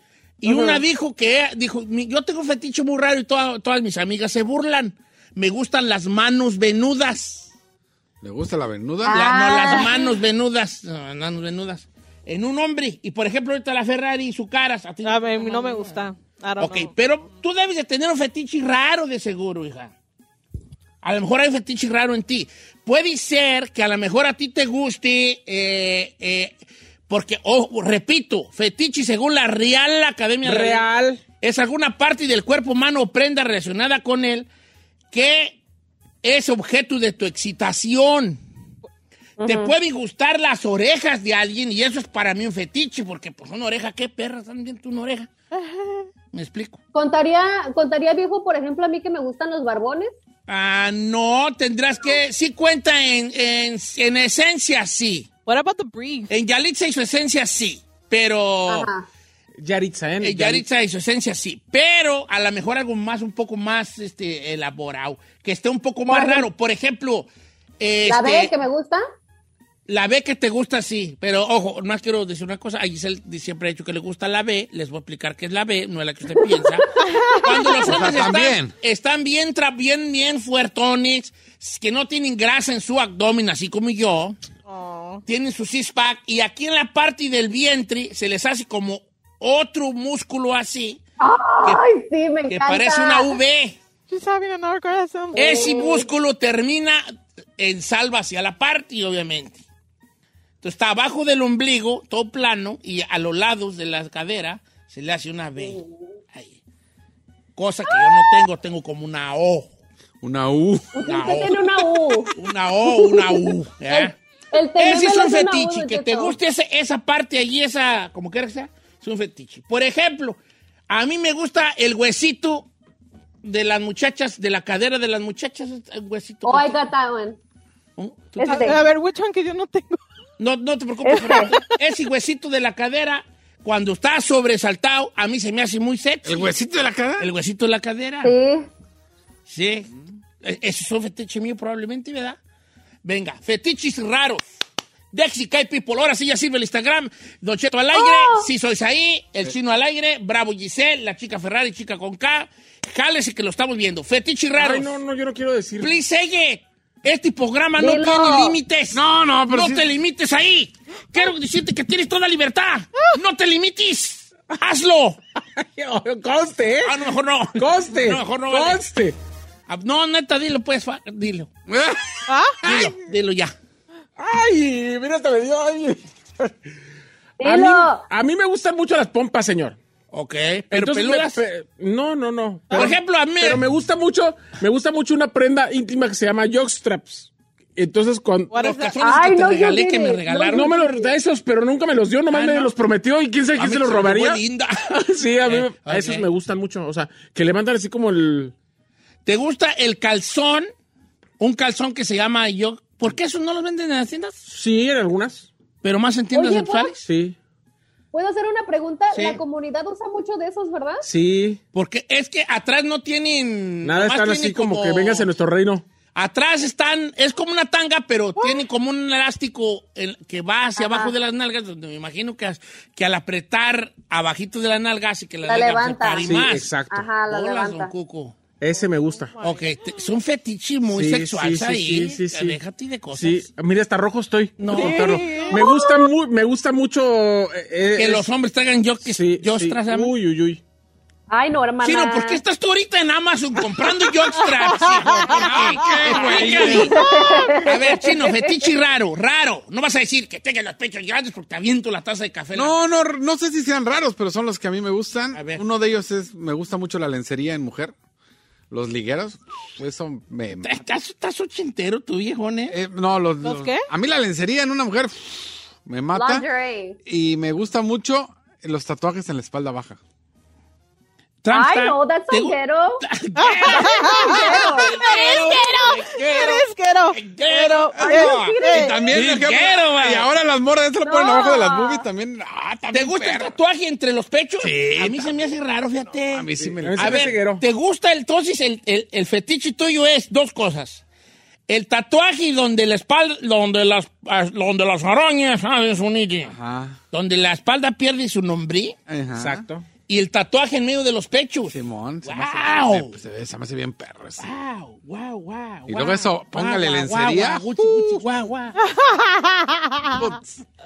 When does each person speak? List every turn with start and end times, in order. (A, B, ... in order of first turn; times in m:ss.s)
0:00.4-0:07.5 A
0:00.4-0:00.8 B
0:08.2-0:09.3 C
0:09.0-0:10.2 B
0:09.1-0:16.0 A
0:15.0-0:16.9 D
0:16.6-0:19.9 A
0:21.0-0:26.5 A
0:27.1-0:30.8 A
0:30.4-0:31.2 E
0:31.4-0:34.5 A
0:35.1-0:35.6 A
0:36.2-0:38.4 A
0:39.4-0:39.7 B
0:39.4-0:45.3 A
0:45.5-0:46.1 D
0:46.3-0:46.8 A
0:46.9-0:50.1 B
0:50.5-0:55.3 A
0:55.4-0:56.3 D
0:56.3-0:58.9 A
0:58.7-0:59.1 B
0:59.6-1:00.6 E
1:00.2-1:07.3 A
1:06.1-1:06.5 B
1:07.8-1:08.5 A
1:08.0-1:09.0 B
1:09.9-1:16.9 A
1:16.4-1:16.7 B
1:17.0-1:17.8 D
1:17.4-1:24.4 A
1:17.8-1:18.7 C
1:24.6-1:25.2 D
1:25.3-1:31.0 A
1:31.2-1:33.4 B
1:32.5-1:33.8 A
1:34.1-1:35.4 D
1:35.4-1:36.1 B
1:35.4-1:37.0 A
1:37.6-1:39.6 A
1:40.6-1:45.8 A
1:45.6-1:46.2 B
1:46.3-1:46.6 A
1:47.6-1:49.7 A
1:47.8-1:48.4 B
1:50.2-1:51.0 C
1:50.9-1:52.3 B
1:51.0-1:54.2 A
1:52.8-1:56.4 B
1:54.7-2:00.4 A
2:00.9-2:02.7 A
2:03.4-2:06.8 A
2:06.4-2:07.4 B
2:08.0-2:08.7 A
2:08.4-2:08.8 B
2:08.4-2:10.0 D
2:10.4-2:16.5 A
2:11.0-2:11.5 B
2:11.1-2:11.7 D
2:16.2-2:17.3 C
2:17.2-2:18.3 A
2:18.2-2:18.7 B
2:19.5-2:19.9 A
2:20.4-2:22.4 A
2:23.0-2:24.4 A
2:25.1-2:35.0 A
2:27.9-2:28.5 B
2:34.6-2:35.9 E
2:35.8-2:45.2 A
2:37.8-2:38.6 B
2:38.9-2:39.9 C
2:45.6-2:47.0 E
2:46.8-2:48.8 A
2:47.6-2:49.2 E
2:49.7-2:51.5 A
2:51.7-2:52.9 C
2:52.3-2:52.6 D
2:52.6-2:53.5 A
2:54.2-2:56.5 E
2:57.4-2:58.1 B
2:57.4-2:59.8 E
3:00.1-3:01.4 A
3:00.7-3:08.5 E
3:02.7-3:03.6 A
3:08.5-3:09.0 D
3:08.5-3:10.7 A
3:09.0-3:11.1 B
3:10.5-3:14.4 E
3:12.3-3:12.7 A
3:13.6-3:14.9 A
3:14.9-3:18.5 E
3:15.4-3:16.3 A
3:19.2-3:20.7 A
3:21.4-3:24.4 A
3:24.5-3:25.5 E
3:25.8-3:27.0 A
3:26.3-3:27.0 B
3:27.0-3:27.4 E
3:28.1-3:31.1 B
3:29.1-3:29.4 A
3:31.0-3:31.6 E
3:31.7-3:35.3 A
3:33.8-3:35.8 E
3:36.1-3:48.4 A
3:40.8-3:41.2 B
3:45.4-3:46.2 B
3:46.2-3:47.1 E
3:46.9-3:47.9 B
3:48.6-3:49.3 E
3:48.8-3:49.8 D
3:49.4-3:53.4 A
3:50.9-3:52.6 E
3:53.1-3:58.3 E
3:54.6-3:55.5 A
3:54.7-3:55.8 D
3:55.5-3:56.1 B
3:57.9-4:00.1 A
3:59.0-4:00.6 E
4:01.3-4:02.4 B
4:01.8-4:12.8 A
4:04.6-4:05.3 D
4:05.3-4:07.1 C
4:06.7-4:08.7 B
4:06.9-4:07.6 D
4:12.5-4:17.9 C
4:15.3-4:15.6 A
4:18.7-4:20.8 C
4:20.6-4:22.8 A
4:22.7-4:26.4 C
4:23.4-4:23.8 D
4:26.1-4:27.0 B
4:27.0-4:30.0 C
4:31.4-4:40.3 A
4:31.5-4:33.0 B
4:33.4-4:39.0 D
4:33.7-4:35.0 B
4:38.0-4:39.0 B
4:38.0-4:43.5 C
4:41.0-4:42.1 B
4:42.9-4:51.0 A
4:44.6-4:45.4 C
4:46.2-4:47.4 C
4:46.8-4:47.6 E
4:51.7-4:56.6 A
4:56.5-4:57.0 C
4:57.1-4:59.0 A
4:59.1-4:59.6 C
4:59.3-4:59.9 E
5:00.1-5:03.1 A
5:01.7-5:04.5 C
5:04.4-5:08.8 A
5:05.9-5:08.2 C
5:08.8-5:10.3 D
5:10.1-5:10.6 C